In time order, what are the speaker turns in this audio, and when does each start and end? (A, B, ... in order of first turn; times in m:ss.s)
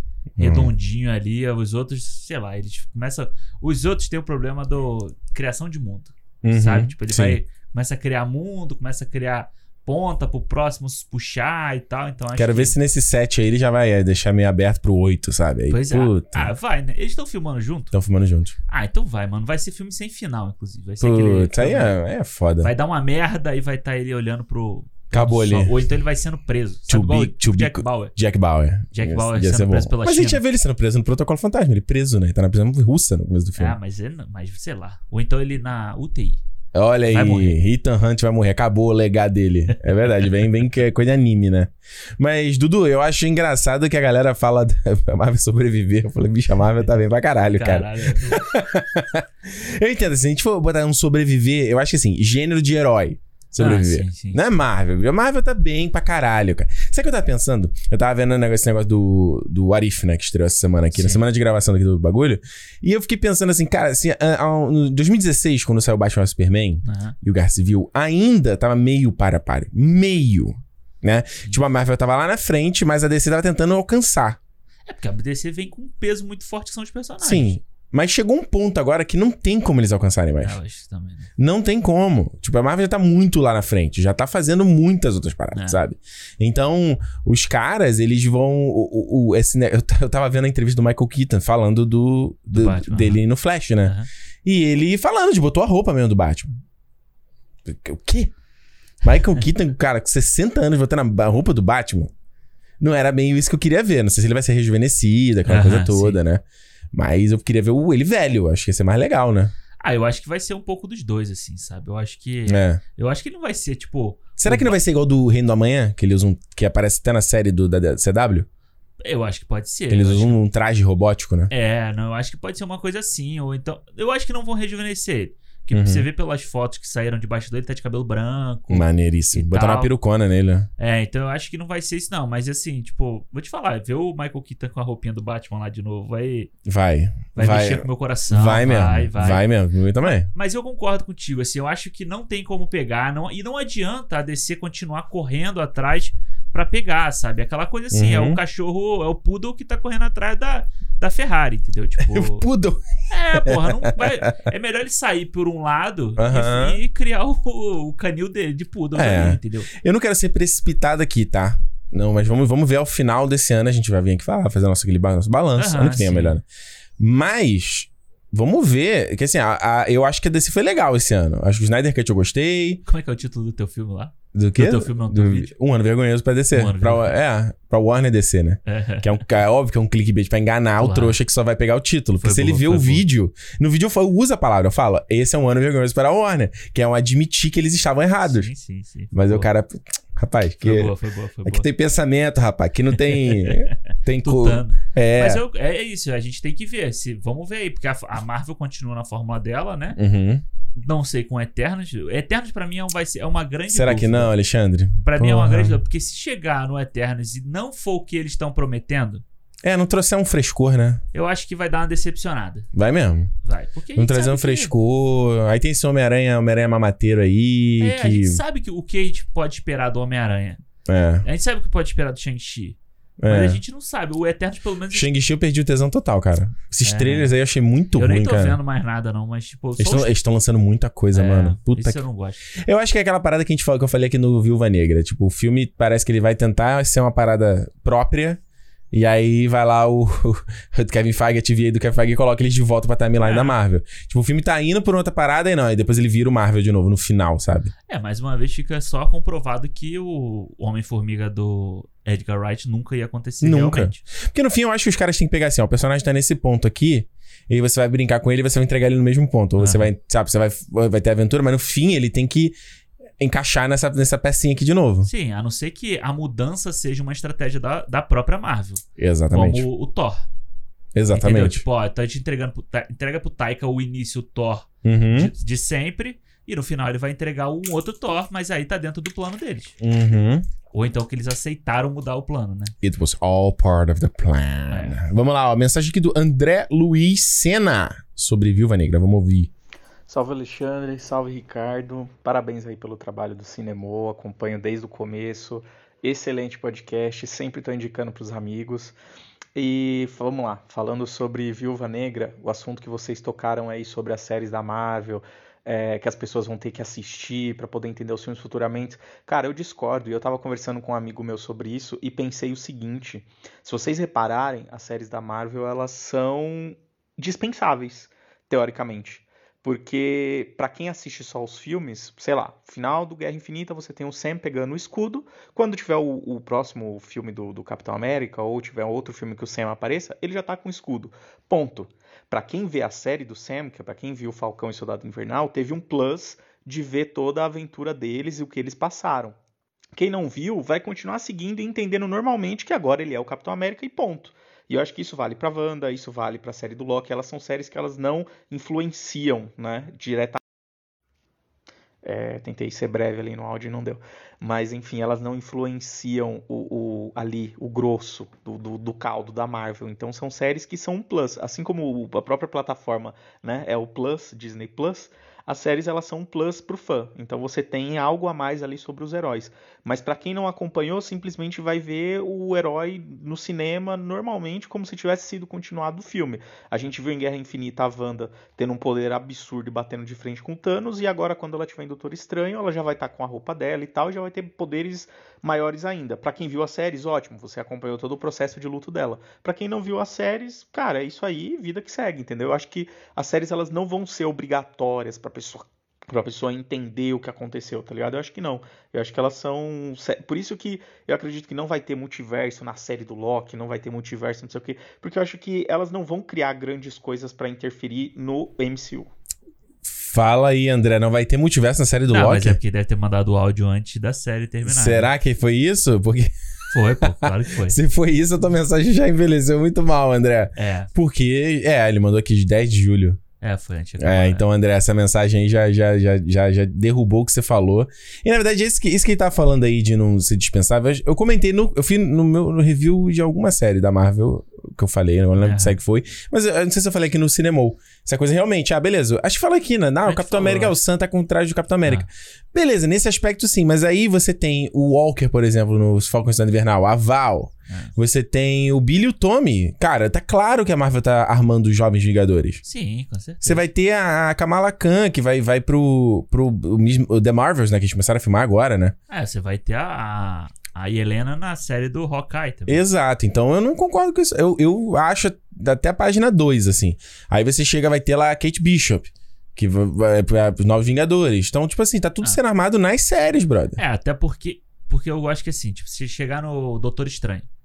0:00.4-0:00.7 A
0:00.4-0:12.8 B
0:06.4-0:07.4 A
0:12.4-0:16.5 A
0:15.7-0:17.9 B
0:17.9-0:18.6 A
0:18.7-0:21.9 B
0:21.0-0:22.7 A
0:22.6-0:28.1 B
0:25.1-0:25.8 A
0:26.9-0:33.8 A
0:28.9-0:30.4 B
0:33.6-0:36.4 B
0:36.7-1:14.4 A
0:37.1-0:37.6 B
0:40.0-0:40.4 B
0:47.5-0:48.4 B
0:53.6-0:54.4 B
1:00.9-1:01.2 B
1:06.8-1:07.2 B
1:14.9-1:17.6 B
1:17.2-1:20.6 A
1:20.4-1:21.3 B
1:21.4-1:36.5 A
1:25.6-1:25.8 B
1:32.5-1:33.2 B
1:37.7-1:38.3 A
1:39.0-1:42.1 A
1:42.8-1:49.5 A
1:45.5-1:46.2 B
1:49.8-1:54.8 B
1:52.5-1:52.8 A
1:54.4-1:58.5 A
1:59.0-2:00.4 B
1:59.9-2:01.5 A
2:01.5-2:09.9 B
2:05.7-2:06.1 A
2:08.7-2:10.7 A
2:10.8-2:16.5 B
2:16.7-2:20.3 A
2:17.4-2:19.4 B
2:20.0-2:32.4 B
2:27.9-2:28.4 A
2:32.0-2:34.3 A
2:33.1-2:39.7 B
2:36.2-2:36.8 A
2:39.0-2:46.4 A
2:45.6-2:46.4 B
2:47.0-2:52.8 A
2:52.9-2:55.5 B
2:54.3-3:08.5 A
2:56.5-2:57.2 B
2:58.7-2:59.2 B
3:00.8-3:01.2 B
3:02.2-3:03.1 B
3:08.2-3:09.5 B
3:09.1-3:10.9 A
3:10.6-3:11.7 B
3:11.4-3:15.4 A
3:13.0-3:20.0 B
3:20.0-3:20.4 A
3:20.8-3:24.3 B
3:23.7-3:25.8 A
3:25.0-3:29.2 B
3:29.6-3:31.0 A
3:31.1-3:32.7 B
3:32.7-3:33.3 A
3:33.4-3:34.7 B
3:34.0-3:38.4 A
3:37.8-3:40.6 B
3:40.9-3:41.3 A
3:41.2-3:45.1 B
3:43.2-3:43.6 A
3:44.9-3:48.6 A
3:46.8-3:47.3 B
3:48.0-3:50.1 B
3:49.8-3:58.4 A
3:51.1-3:52.5 B
3:58.9-4:07.7 A
4:03.2-4:03.6 B
4:07.9-4:14.0 B
4:13.4-4:22.6 A
4:19.6-4:19.9 B
4:23.2-4:25.1 A
4:25.0-4:30.3 B
4:29.0-4:29.7 A
4:31.0-4:31.6 A
4:31.1-4:39.8 B
4:34.8-4:35.3 A
4:39.8-4:40.5 A
4:40.7-4:42.7 B
4:42.8-4:49.5 A
4:44.7-4:45.0 B
4:50.1-4:59.0 C
4:59.6-5:39.4 C
5:40.0-5:50.4 C
5:52.0-6:49.1 C
6:49.8-6:52.6 A
6:52.1-6:55.1 B
6:54.6-6:56.3 A
6:56.7-6:57.8 B
6:57.0-7:03.2 A
7:00.6-7:00.9 B
7:03.4-7:04.4 B
7:04.0-7:32.6 A
7:15.4-7:15.8 B
7:20.0-7:20.8 B
7:32.6-7:33.6 B
7:33.4-7:39.0 A
7:39.1-7:42.8 B
7:42.7-7:53.8 A
7:53.8-7:57.5 B